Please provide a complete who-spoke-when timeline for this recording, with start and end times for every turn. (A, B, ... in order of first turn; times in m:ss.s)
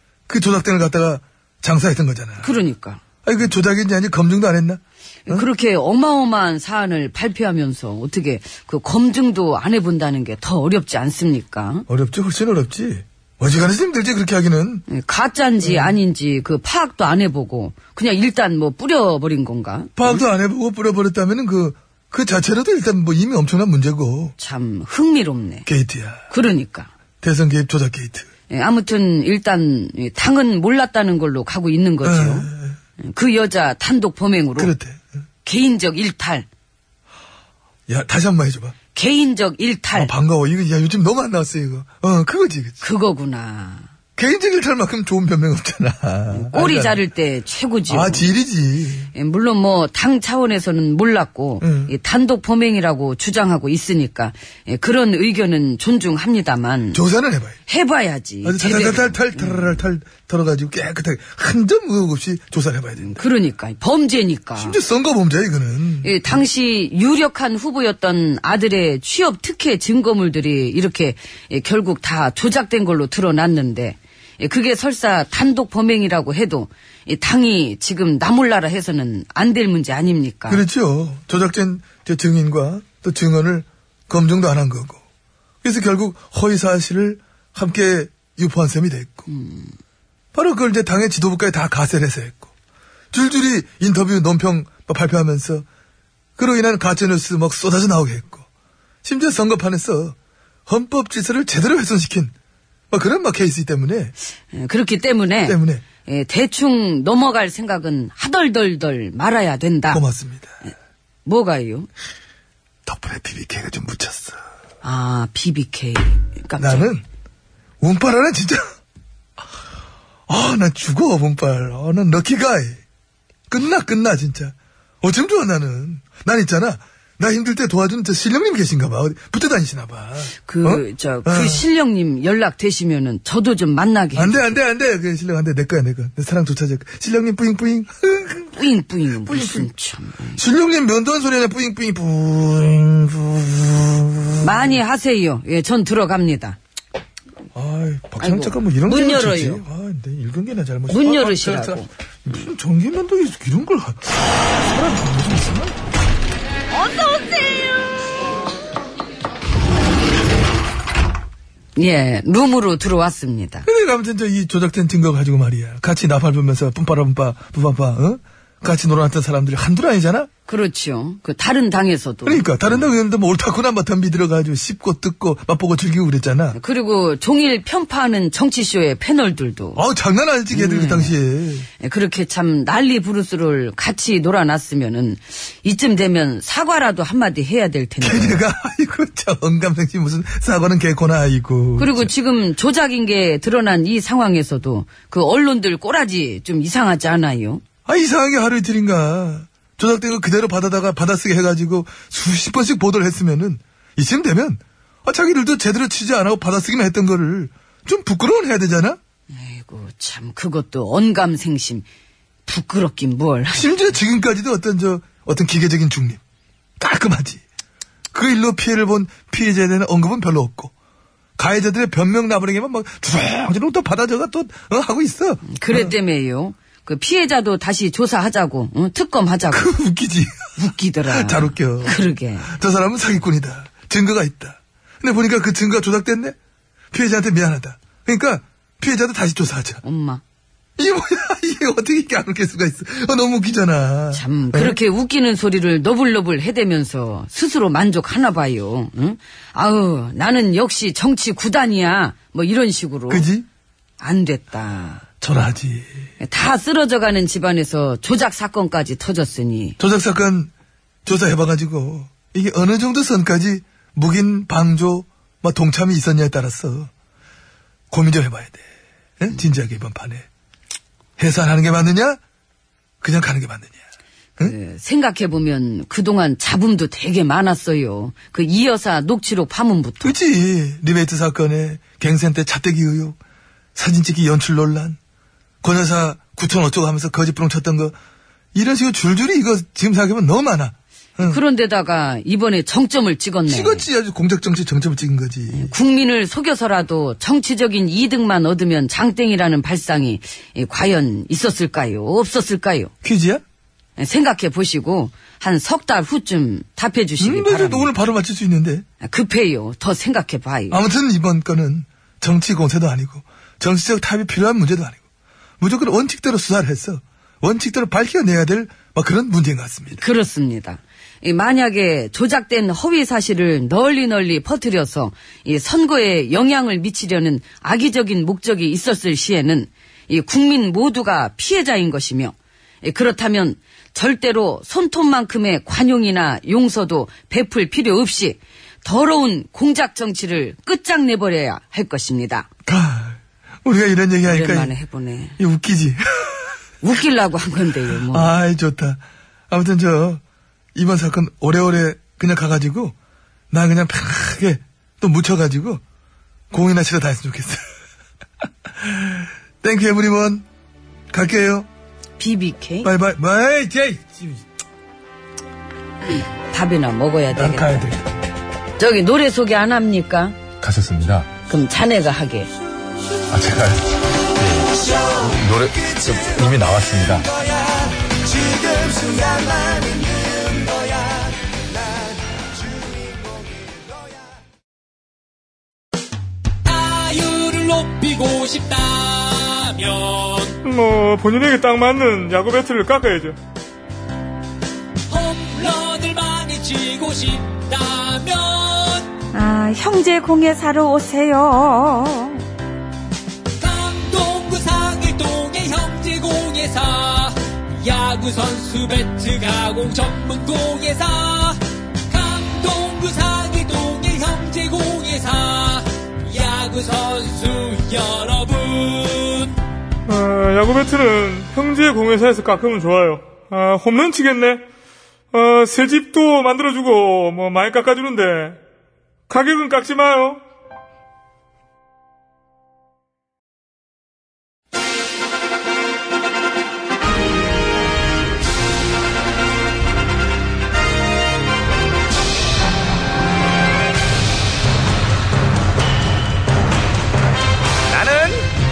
0:00.3-0:02.6 A
0:02.4-0:03.0 B
0:03.2-0:05.5 A
0:05.3-0:11.9 B
0:11.9-0:14.8 A
0:14.9-0:20.2 B
0:15.6-0:16.0 A
0:20.0-0:24.4 A
0:24.4-0:25.7 B
0:25.7-0:26.3 A
0:26.3-0:26.9 B
0:27.2-0:28.3 A
0:28.5-0:32.5 B
0:32.0-0:32.8 A
0:33.0-0:34.7 B
0:34.6-0:35.0 A
0:35.4-0:36.5 B
0:37.9-0:38.8 A
0:39.0-0:40.1 B
0:39.9-0:42.8 A
0:42.8-0:43.9 B
0:44.2-0:47.0 A
0:46.3-0:48.3 B
0:47.9-0:49.1 A
0:49.1-0:57.0 B
0:51.6-0:51.9 A
0:56.9-0:57.6 A
0:57.7-0:59.8 B
0:58.4-1:03.2 A
1:03.0-1:04.8 B
1:04.6-1:06.4 A
1:06.0-1:20.6 B
1:20.5-1:25.0 A
1:25.6-1:29.3 A
1:29.3-1:29.7 B
1:30.3-1:32.5 A
1:33.1-1:35.7 A
1:36.4-1:38.4 A
1:39.0-1:40.2 A
1:40.7-1:42.3 A
1:42.9-1:44.1 A
1:44.5-1:50.0 B
1:45.4-1:45.8 A
1:49.9-1:50.5 A
1:51.2-1:51.9 B
1:52.9-1:54.4 A
1:54.8-1:56.9 B
1:56.6-1:57.0 A
1:57.8-1:58.7 A
2:00.3-2:02.8 A
2:03.5-2:11.6 A
2:10.5-2:14.5 B
2:14.2-2:18.6 A
2:18.6-2:20.4 B
2:19.2-2:19.7 A
2:20.4-2:24.8 A
2:24.4-2:26.6 B
2:27.5-2:35.8 A
2:28.2-2:29.6 B
2:30.9-2:31.9 B
2:36.7-2:37.6 B
2:41.8-2:43.7 B
2:43.7-2:50.3 A
2:50.5-2:52.9 B
2:52.2-2:56.6 A
2:56.5-2:59.8 B
2:59.8-3:01.7 A
3:00.5-3:01.2 B
3:01.8-3:08.4 B
3:08.0-3:12.1 A
3:11.8-3:17.6 B
3:17.9-3:29.0 A
3:29.3-3:31.9 B
3:32.5-3:33.9 B
3:33.5-3:36.2 A
3:36.8-3:37.4 A
3:38.1-3:40.7 A
3:41.4-3:46.0 A
3:45.5-3:49.7 B
3:49.5-3:56.4 A
3:50.6-3:52.5 B
3:56.9-3:59.8 A
3:59.8-4:00.2 B
4:00.8-4:04.8 A
4:04.1-4:13.3 B
4:13.1-4:13.5 A
4:14.0-4:15.0 B
4:15.2-4:15.9 A
4:16.2-4:19.8 B
4:19.8-4:20.5 A
4:21.1-4:26.9 A
4:27.9-4:28.6 A
4:29.2-4:30.3 A
4:31.2-4:32.2 A
4:33.0-4:33.8 A
4:34.4-4:40.2 B
4:40.0-4:43.2 A
4:43.8-4:45.0 A
4:45.6-4:48.0 A
4:48.5-4:51.4 A
4:51.2-4:53.9 B
4:53.5-4:55.7 A
4:55.5-5:02.9 B
5:03.0-5:03.4 A
5:04.0-5:07.9 B
5:07.2-5:08.8 A
5:09.0-5:10.8 B
5:10.7-5:15.0 A
5:15.6-5:20.0 A
5:20.0-5:42.5 B
5:42.7-5:44.7 A
5:44.3-5:45.4 B
5:45.4-5:46.5 A
5:46.8-5:48.3 B
5:48.1-5:50.2 A
5:50.8-5:52.9 A
5:53.5-5:55.8 A
5:56.5-5:57.6 A
5:58.8-6:00.4 A
6:01.1-6:01.7 A
6:02.2-6:02.9 B
6:02.8-6:04.4 A
6:06.1-6:07.9 B
6:07.3-6:08.1 A
6:08.8-6:10.4 B
6:10.6-6:11.3 C
6:11.5-6:12.5 B
6:13.3-6:13.8 C
6:14.4-6:17.3 C
6:26.6-6:30.6 D
6:30.6-6:33.4 E
6:35.1-6:39.1 D
6:39.3-6:42.4 B
6:43.6-6:59.6 D
7:00.1-7:04.6 E
7:05.3-7:08.6 E
7:09.3-7:10.4 E
7:27.9-7:28.5 C